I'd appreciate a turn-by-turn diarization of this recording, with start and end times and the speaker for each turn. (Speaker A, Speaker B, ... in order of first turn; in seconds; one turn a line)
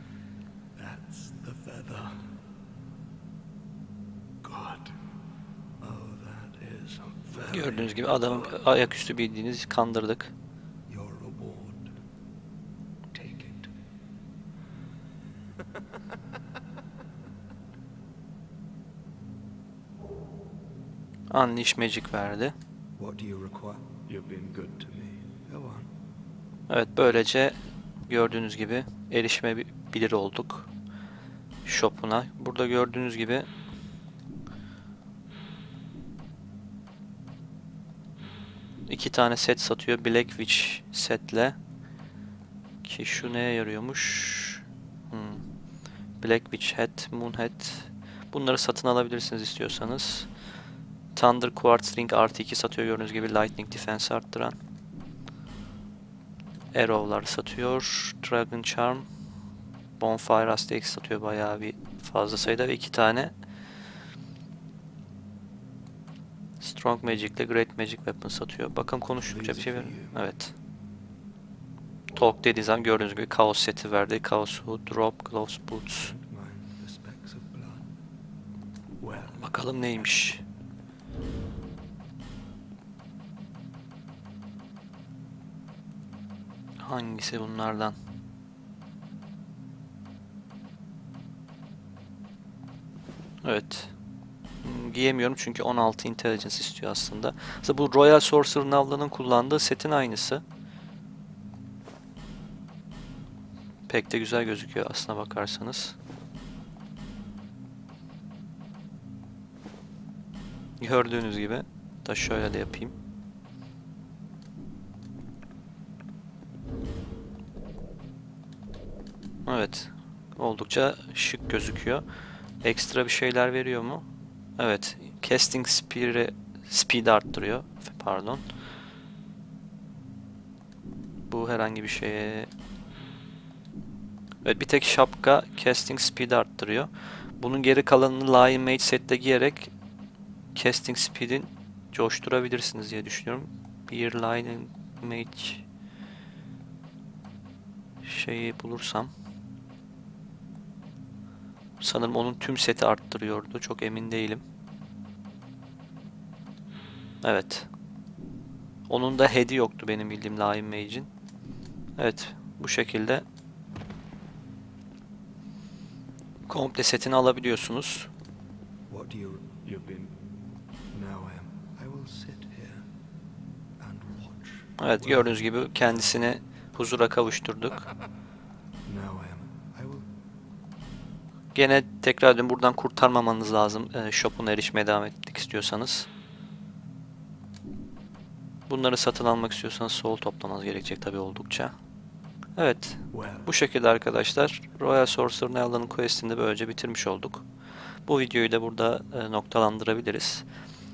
Speaker A: 0.8-2.1
Speaker A: 4.4-5.0
Speaker A: 5.8-8.7
Speaker B: 7.3-10.3
Speaker A: 10.9-11.9
Speaker A: 13.1-13.7
Speaker B: 21.3-22.5
Speaker A: 23.0-25.9
Speaker B: 26.7-27.5
Speaker B: 28.1-30.7
Speaker B: 31.6-33.5
Speaker B: 38.9-41.5
Speaker B: 42.8-45.4
Speaker B: 46.2-50.3
Speaker B: 51.1-54.5
Speaker B: 56.7-59.0
Speaker B: 60.0-63.3
Speaker B: 66.6-70.5
Speaker A: 69.2-70.2
Speaker B: 72.1-76.1
Speaker A: 76.0-77.9
Speaker A: 79.0-80.3
Speaker B: 79.4-80.4
Speaker B: 86.8-88.0
Speaker B: 93.4-93.9
Speaker B: 94.6-100.4
Speaker B: 103.9-106.0
Speaker B: 110.8-112.9
Speaker B: 119.5-122.0
Speaker B: 122.6-124.0
Speaker B: 124.6-128.4
Speaker B: 131.3-132.5
Speaker B: 134.4-139.7
Speaker B: 140.5-145.6
Speaker B: 148.0-149.1
Speaker B: 151.8-154.4
Speaker B: 157.2-157.7
Speaker B: 158.9-161.1
Speaker B: 162.0-163.2
Speaker B: 166.5-168.1
Speaker A: 168.9-170.1
Speaker A: 170.9-172.8
Speaker A: 173.8-176.2
Speaker B: 174.8-177.9
Speaker A: 178.8-180.1
Speaker B: 181.5-186.1
Speaker B: 188.7-191.7
Speaker B: 192.6-197.4
Speaker A: 193.1-193.5
Speaker B: 198.1-200.4